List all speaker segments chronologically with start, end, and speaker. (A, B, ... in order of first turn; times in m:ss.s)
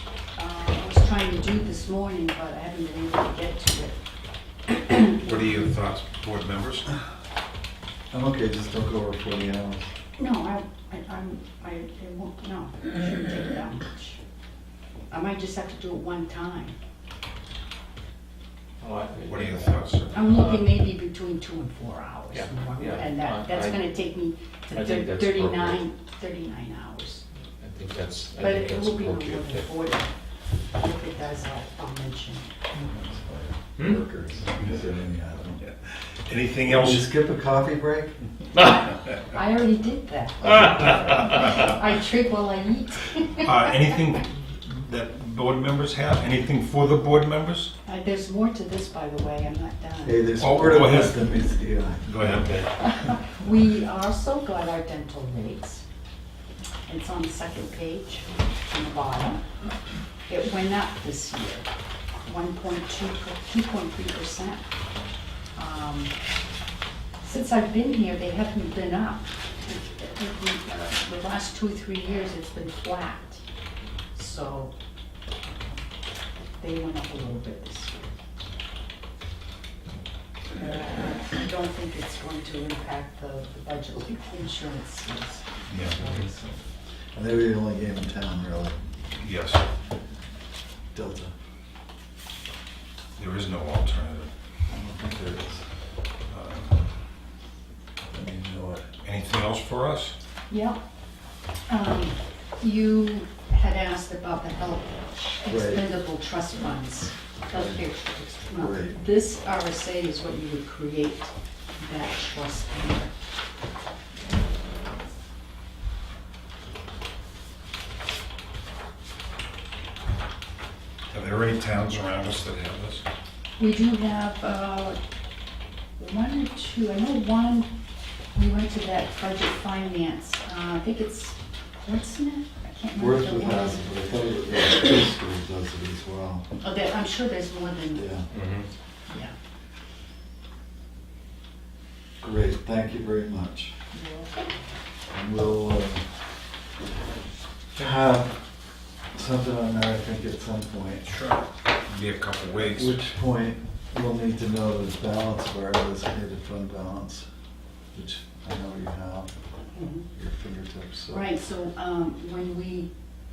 0:00.4-0:04.0 A
0:04.7-0:05.7 A
0:05.2-0:06.9 B
0:08.1-0:09.9 C
0:10.2-0:14.2 A
0:15.1-0:16.8 A
0:18.8-0:20.7 D
0:19.3-0:20.2 B
0:20.1-0:27.2 A
0:22.3-0:23.9 D
0:24.7-0:25.8 D
0:27.6-0:29.7 D
0:28.4-0:30.1 A
0:30.7-0:32.5 A
0:32.7-0:35.6 C
0:35.6-0:37.1 B
0:36.6-0:38.2 C
0:38.5-0:43.7 A
0:43.4-0:47.7 B
0:47.8-0:50.4 A
0:50.0-0:52.4 C
0:50.4-0:51.2 B
0:52.1-0:52.6 B
0:52.1-0:52.7 D
0:52.8-0:55.8 A
0:56.9-0:59.4 A
1:00.3-1:01.7 A
1:02.2-1:04.6 A
1:05.6-1:06.1 A
1:07.2-1:13.4 A
1:14.1-1:14.7 A
1:15.4-1:15.8 A
1:16.5-1:18.0 A
1:20.6-1:26.5 A
1:25.7-1:26.0 B
1:26.0-1:26.2 D
1:27.1-1:29.1 C
1:29.2-1:29.6 B
1:30.9-1:31.3 C
1:33.2-1:34.3 B
1:34.7-1:35.6 C
1:36.3-1:36.8 B
1:38.1-1:38.9 C
1:39.0-1:40.1 B
1:40.5-1:40.8 A
1:41.7-1:53.1 A
1:45.5-1:45.9 C
1:47.5-1:47.8 C
1:48.5-1:49.0 C
2:01.1-2:03.0 B
2:03.6-2:05.0 A
2:06.0-2:07.7 A
2:08.3-2:13.9 A
2:13.0-2:16.4 C
2:16.6-2:18.0 A
2:17.9-2:18.2 C
2:18.3-2:18.7 D
2:19.1-2:19.3 A
2:22.2-2:23.7 C
2:23.9-2:24.5 A
2:25.1-2:26.0 C
2:27.8-2:28.4 C
2:29.1-2:31.1 C
2:31.0-2:33.0 B
2:32.5-2:37.2 C
2:37.9-2:39.3 C
2:39.7-2:40.0 A
2:40.1-2:41.2 C
2:41.1-2:42.9 A